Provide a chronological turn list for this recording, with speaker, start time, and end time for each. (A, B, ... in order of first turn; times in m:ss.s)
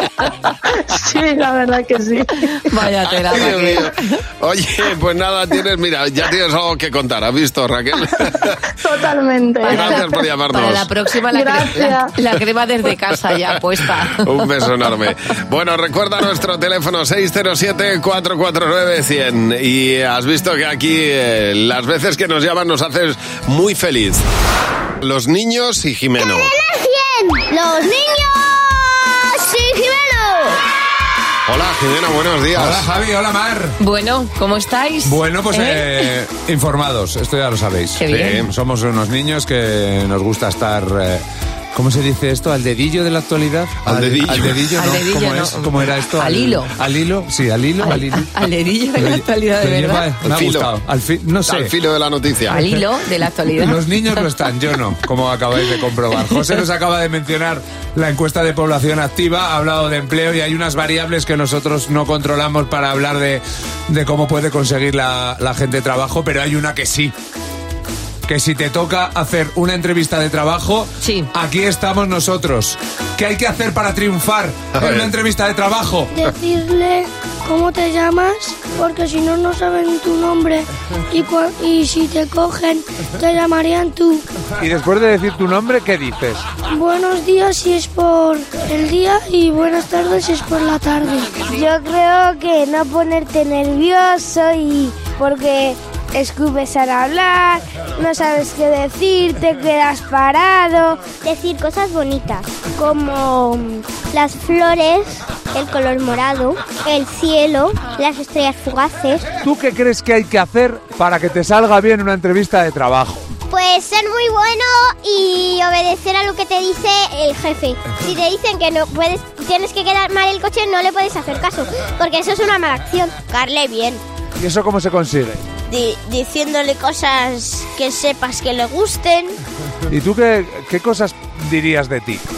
0:00.7-0:02.5 A
0:02.7-0:04.0 B
0:03.2-0:08.6 C
0:08.8-0:10.2 A
0:09.6-0:14.2 B
0:09.7-0:10.9 C
0:11.3-0:12.1 A
0:14.1-0:24.2 C
0:25.0-0:26.5 C
0:26.2-0:30.6 D
0:31.5-0:32.9 C
0:32.5-0:33.8 E
0:33.8-0:35.9 B
0:35.0-0:41.2 E
0:38.0-0:38.4 B
0:38.1-0:38.5 C
0:41.7-0:48.3 E
0:43.8-0:44.7 C
0:44.8-0:46.7 B
0:47.8-0:50.1 B
0:49.0-0:51.7 E
0:50.2-0:50.7 C
0:51.4-0:52.6 C
0:52.5-0:54.2 B
0:53.5-1:07.1 E
1:08.3-1:16.1 E
1:11.0-1:11.3 B
1:14.7-1:15.1 C
1:16.1-1:24.2 F
1:24.6-1:26.4 E
1:26.7-1:34.1 F
1:31.6-1:32.8 D
1:33.9-1:49.3 D
1:36.2-1:37.0 F
1:49.4-1:53.3 E
1:53.5-2:04.0 D
2:04.4-2:05.5 E
2:05.7-2:09.4 D
2:09.9-2:12.2 E